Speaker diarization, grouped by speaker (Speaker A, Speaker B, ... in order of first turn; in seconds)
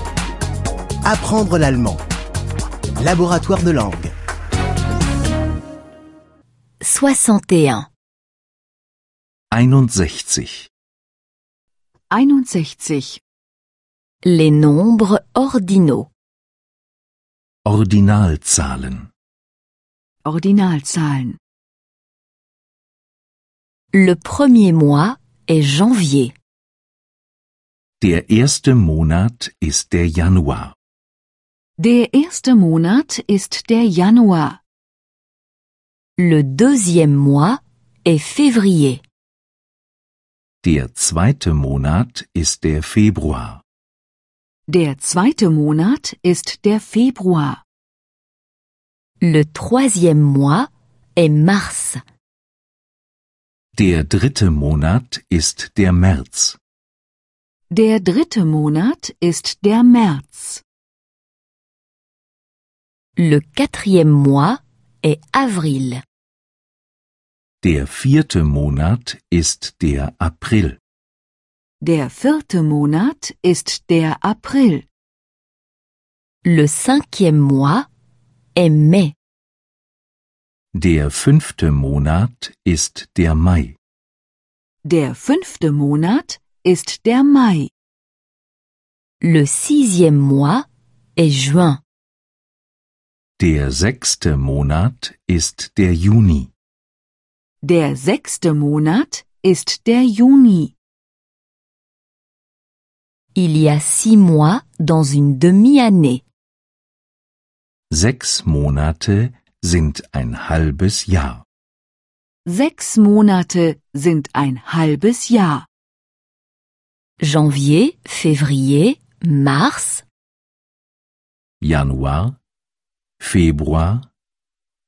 Speaker A: 1.1-2.0, 3.0-4.1
Speaker B: 6.8-7.9, 14.2-16.1, 23.9-26.3, 36.2-39.0, 49.2-52.0, 63.2-66.0, 76.4-77.9, 78.5-79.1, 89.2-91.8, 103.3-106.2, 117.2-120.0
Speaker C: 9.5-10.7, 17.6-19.1, 28.0-30.7, 40.6-43.6, 53.8-56.6, 67.6-70.8, 80.7-83.8, 93.4-96.5, 107.9-111.4, 121.6-122.4, 123.2-124.1
Speaker D: 12.1-13.2, 20.2-21.4, 31.8-34.6, 44.7-47.6, 57.7-60.6, 71.8-74.8, 84.9-87.7, 97.6-100.7, 112.5-115.7